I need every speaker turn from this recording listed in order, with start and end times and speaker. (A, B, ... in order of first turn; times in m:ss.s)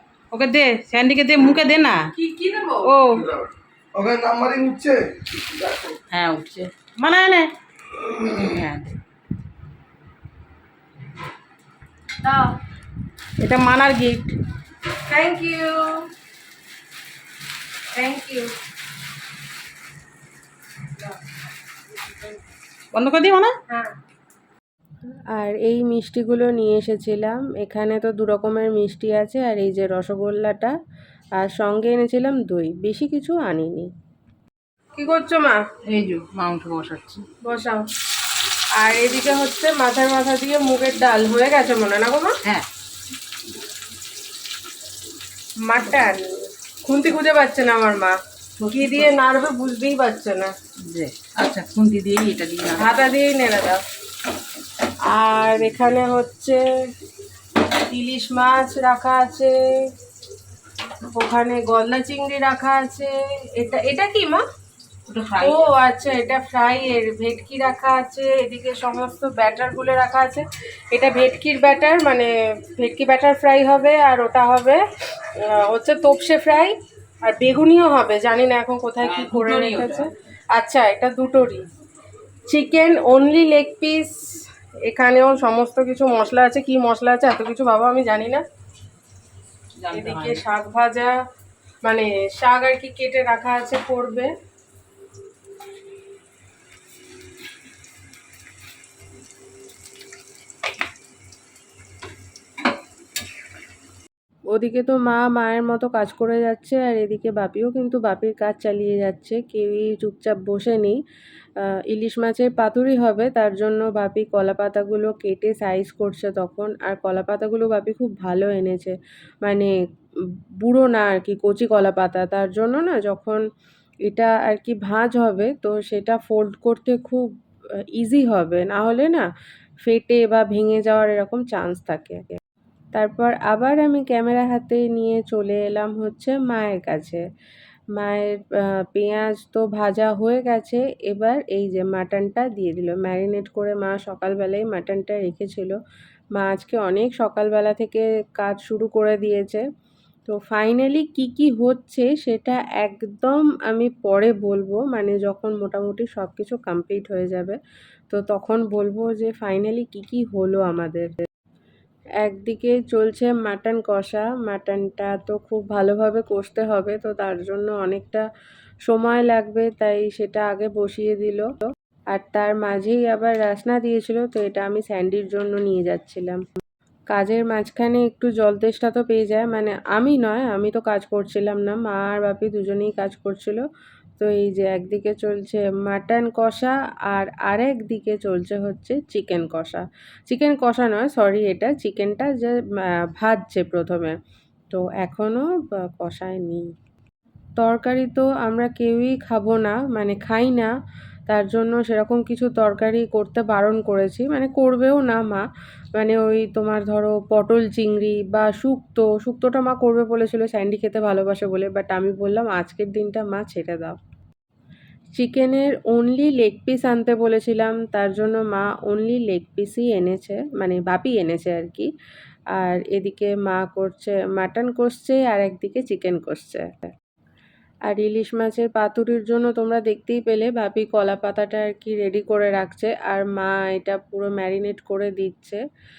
0:00.3-0:02.1 A
0:02.1-0:02.9 B
0:02.9-0:03.2 A
0:03.2-0:06.0 C
0:06.1-0:07.5 A
0:08.0-0:08.5 C
0:08.5-0:08.9 A
0:12.2-0:12.5 B
0:13.4-0:14.3 B
0:15.1-0:16.1 B
0:17.9-0:18.5 B
0:22.9-0:23.5 A
0:23.7-0:23.9 B
0:25.3-0:30.8 B
0:31.4-0:33.9 B
0:35.0-0:35.6 B
0:35.9-0:37.2 A
0:37.4-0:37.9 B
0:38.8-0:42.4 B
0:45.6-0:48.2 B
0:48.6-0:49.1 A
0:48.7-0:50.5 B
0:50.8-0:52.9 A
0:52.8-0:53.8 B
0:55.1-0:56.6 B
0:57.9-0:59.6 B
1:01.1-1:04.4 B
1:05.1-1:05.6 A
1:05.4-1:14.8 B
1:15.4-1:21.6 B
1:19.0-1:20.1 A
1:22.5-1:28.4 B
1:29.8-1:30.4 A
1:29.9-1:31.1 B
1:31.8-1:34.3 B
1:44.5-1:51.0 B
1:51.6-1:59.7 B
2:00.6-2:03.4 B
2:04.1-2:07.3 B
2:08.0-2:09.3 B
2:09.8-2:12.4 B
2:13.0-2:17.2 B
2:18.0-2:25.8 B
2:26.4-2:29.6 B
2:30.3-2:37.6 B
2:38.1-2:41.1 B
2:42.2-2:48.2 B
2:48.9-2:56.4 B
2:57.1-3:03.6 B
3:04.2-3:14.2 B
3:14.7-3:16.7 B
3:17.6-3:20.7 B
3:21.3-3:34.0 B
3:35.2-3:41.9 B
3:42.5-3:46.9 B
3:47.9-3:55.6 B